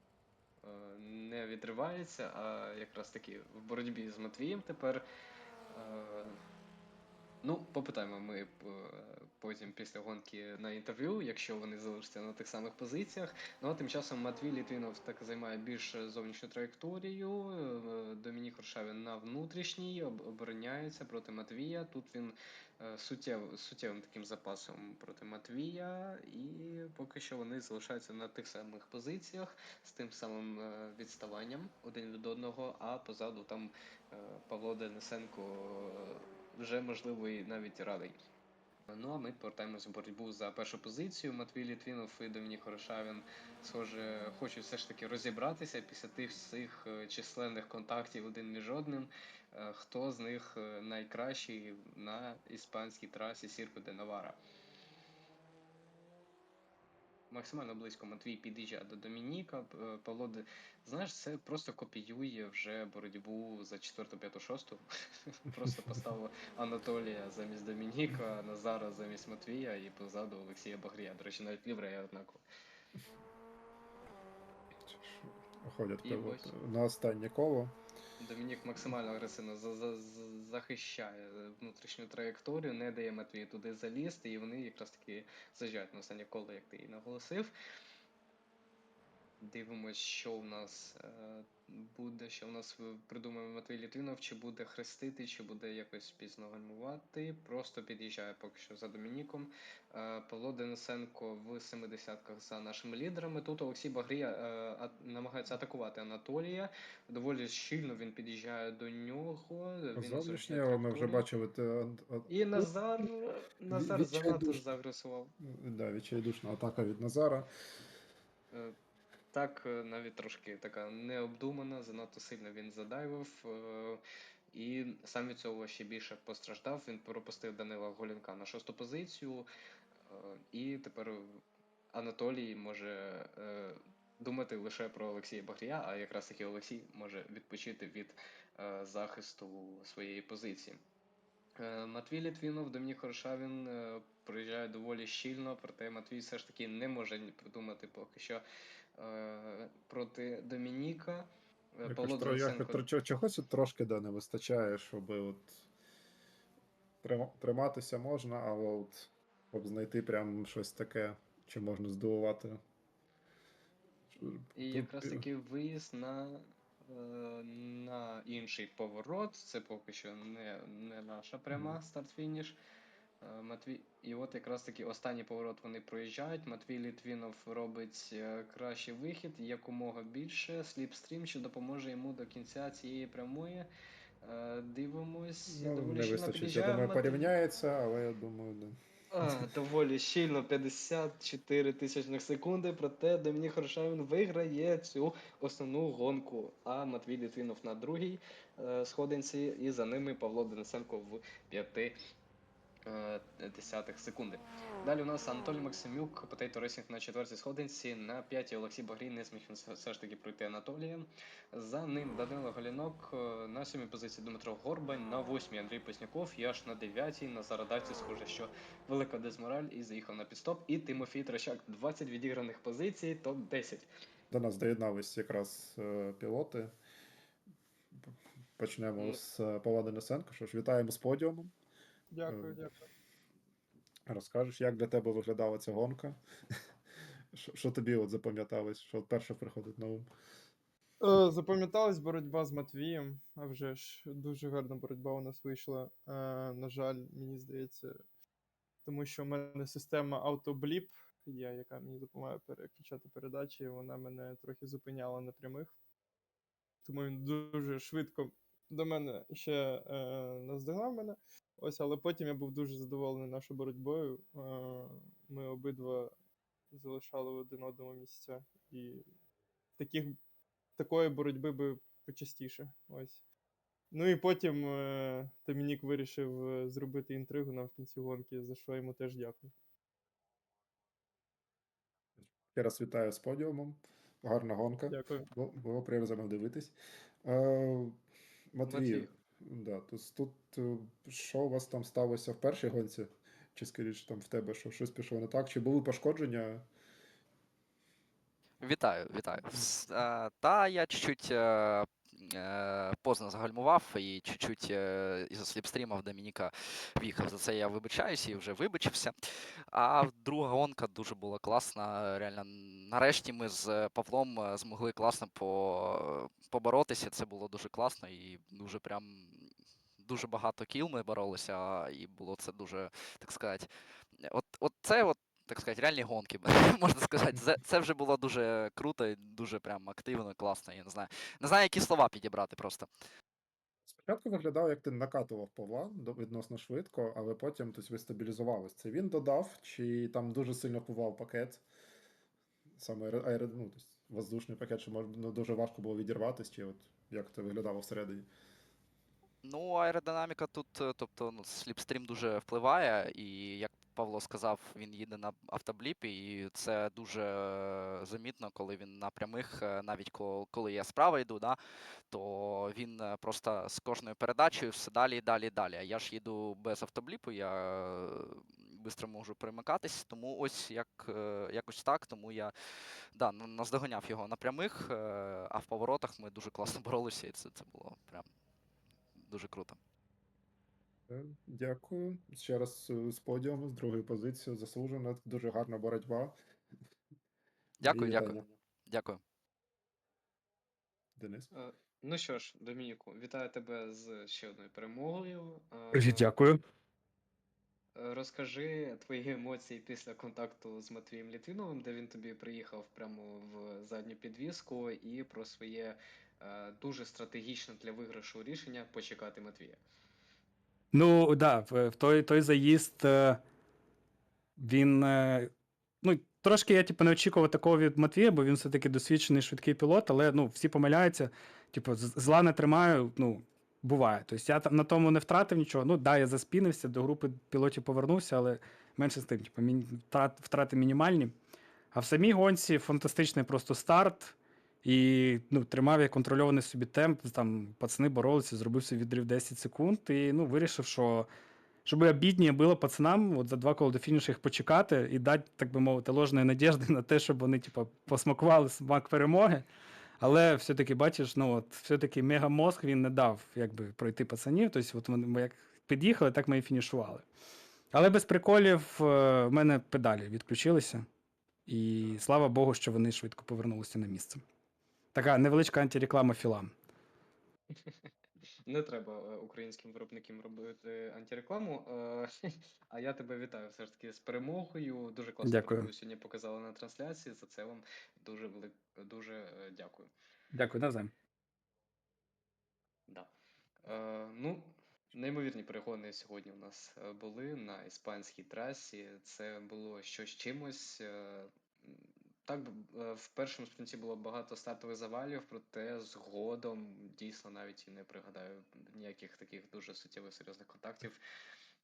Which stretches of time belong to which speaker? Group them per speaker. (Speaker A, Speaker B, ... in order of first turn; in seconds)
Speaker A: 0.6-5.0, 5.7-6.4, 7.4-38.2, 38.9-54.4, 57.3-72.4, 76.0-76.5, 78.2-87.5, 89.4-111.2, 112.3-115.3, 119.3-129.5, 130.1-131.4, 131.9-140.8, 141.6-148.4, 149.0-152.8, 164.5-172.6, 173.2-183.7, 184.2-187.3, 189.1-201.9, 202.8-223.9, 288.7-289.1, 391.5-396.3, 397.9-409.8, 468.7-472.3, 472.9-480.1, 483.8-501.2
Speaker B: 65.6-65.9, 74.8-77.8, 110.0-112.7, 113.7-114.6, 115.4-117.5, 151.9-155.7, 157.0-162.6, 164.1-165.2, 185.5-189.5, 224.3-226.7, 228.0-231.5, 232.2-232.6, 234.1-236.2, 237.3-240.1, 282.5-288.0, 288.5-296.6, 333.9-341.6, 342.8-348.3, 381.1-386.4, 387.8-388.4, 391.2-391.5
Speaker C: 232.1-232.9, 241.0-247.9, 248.8-255.7, 256.8-266.1, 266.7-269.1, 269.8-270.2, 270.8-273.2, 273.9-279.5, 284.9-285.3
Speaker D: 298.6-309.1, 309.7-332.9, 349.4-361.6, 362.1-372.5, 373.1-378.3, 379.2-379.8, 387.8-389.2
Speaker E: 395.9-396.6, 410.9-413.4, 414.6-415.5, 416.0-431.3, 431.9-441.3, 441.8-449.6, 450.2-457.2, 457.9-461.1, 461.7-464.4, 465.1-466.7, 475.4-475.9, 480.5-481.1